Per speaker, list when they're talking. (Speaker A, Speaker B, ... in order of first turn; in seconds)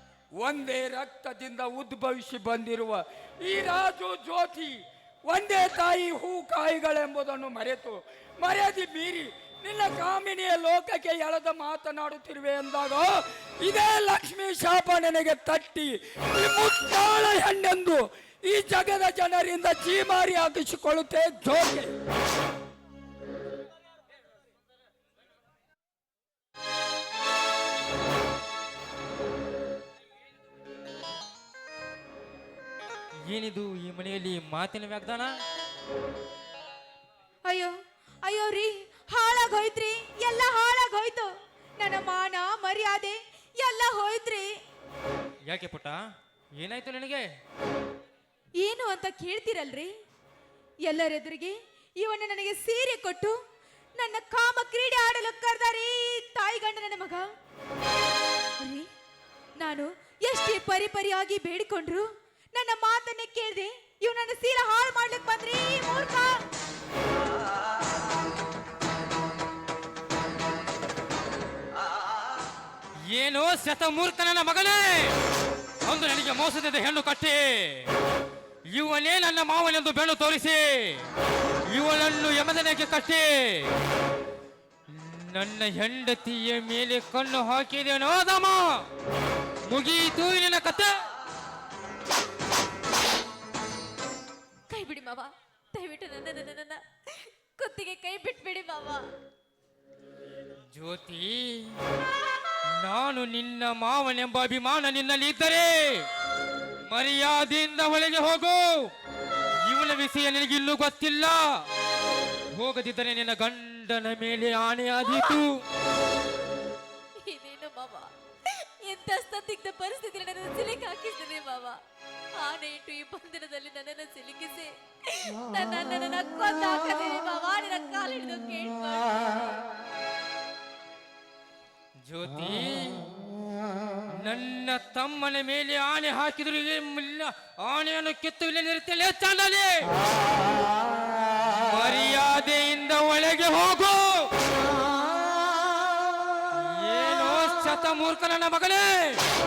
Speaker A: 0.4-21.9
Speaker B: 33.2-35.4, 45.5-46.0, 46.6-47.3, 73.1-75.2, 75.8-77.9, 78.7-81.1, 81.7-83.7, 84.9-88.9, 89.7-91.0, 100.7-101.8, 102.7-106.1, 106.9-108.9, 109.6-111.7, 112.5-115.6, 132.0-133.1, 134.1-140.0, 141.5-144.3, 146.5-149.2
Speaker C: 37.5-44.5, 48.6-49.9, 50.8-53.4, 54.0-57.3, 58.6-58.9, 59.6-66.3
Speaker D: 94.7-99.0, 117.2-121.8, 122.3-129.5